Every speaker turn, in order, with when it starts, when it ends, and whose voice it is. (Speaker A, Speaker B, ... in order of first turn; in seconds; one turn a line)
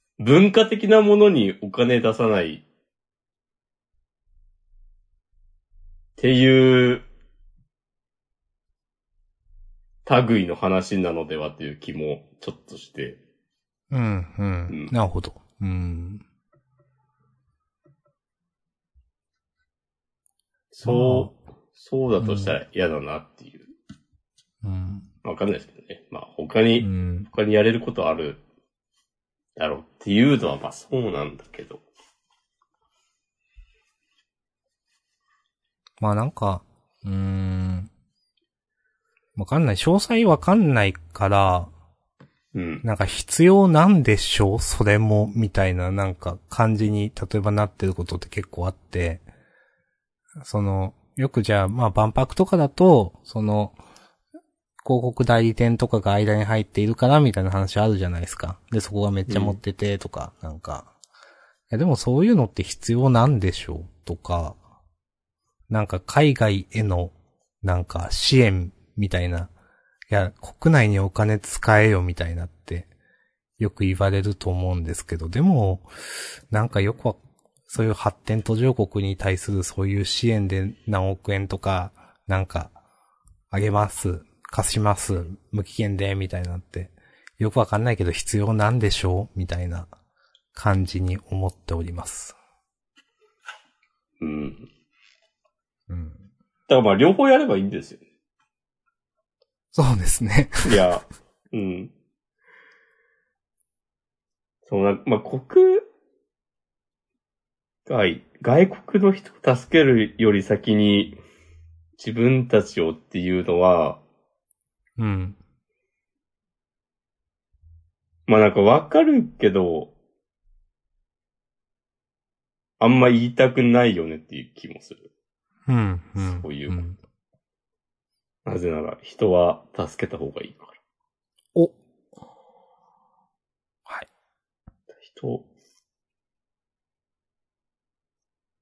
Speaker A: 0.2-2.6
Speaker A: 6.2-7.0
Speaker A: 10.1-13.2
Speaker B: 13.9-16.2
Speaker A: 20.7-23.7
Speaker B: 20.9-21.3
Speaker B: 22.2-22.6
Speaker B: 24.6-25.1
Speaker A: 25.2-28.4
Speaker B: 26.8-27.3
Speaker A: 29.6-31.8
Speaker B: 36.0-37.9
Speaker B: 39.3-41.7
Speaker A: 42.5-42.8
Speaker B: 42.8-49.2
Speaker B: 50.4-53.8
Speaker B: 54.8-60.9
Speaker A: 59.3-59.6
Speaker B: 61.7-64.6
Speaker B: 65.7-69.5
Speaker B: 70.1-72.9
Speaker B: 73.6-82.7
Speaker B: 83.5-89.9
Speaker B: 90.5-92.4
Speaker A: 94.2-94.7
Speaker B: 95.9-96.2
Speaker A: 96.7-98.0
Speaker B: 99.7-100.8
Speaker A: 100.6-101.9
Speaker A: 104.7-105.9
Speaker A: 107.9-111.2
Speaker A: 112.0-114.0
Speaker B: 115.0-115.4
Speaker A: 118.3-119.9
Speaker A: 122.8-125.0
Speaker B: 125.7-127.0
Speaker A: 126.2-126.9
Speaker A: 128.4-130.8
Speaker A: 135.0-135.4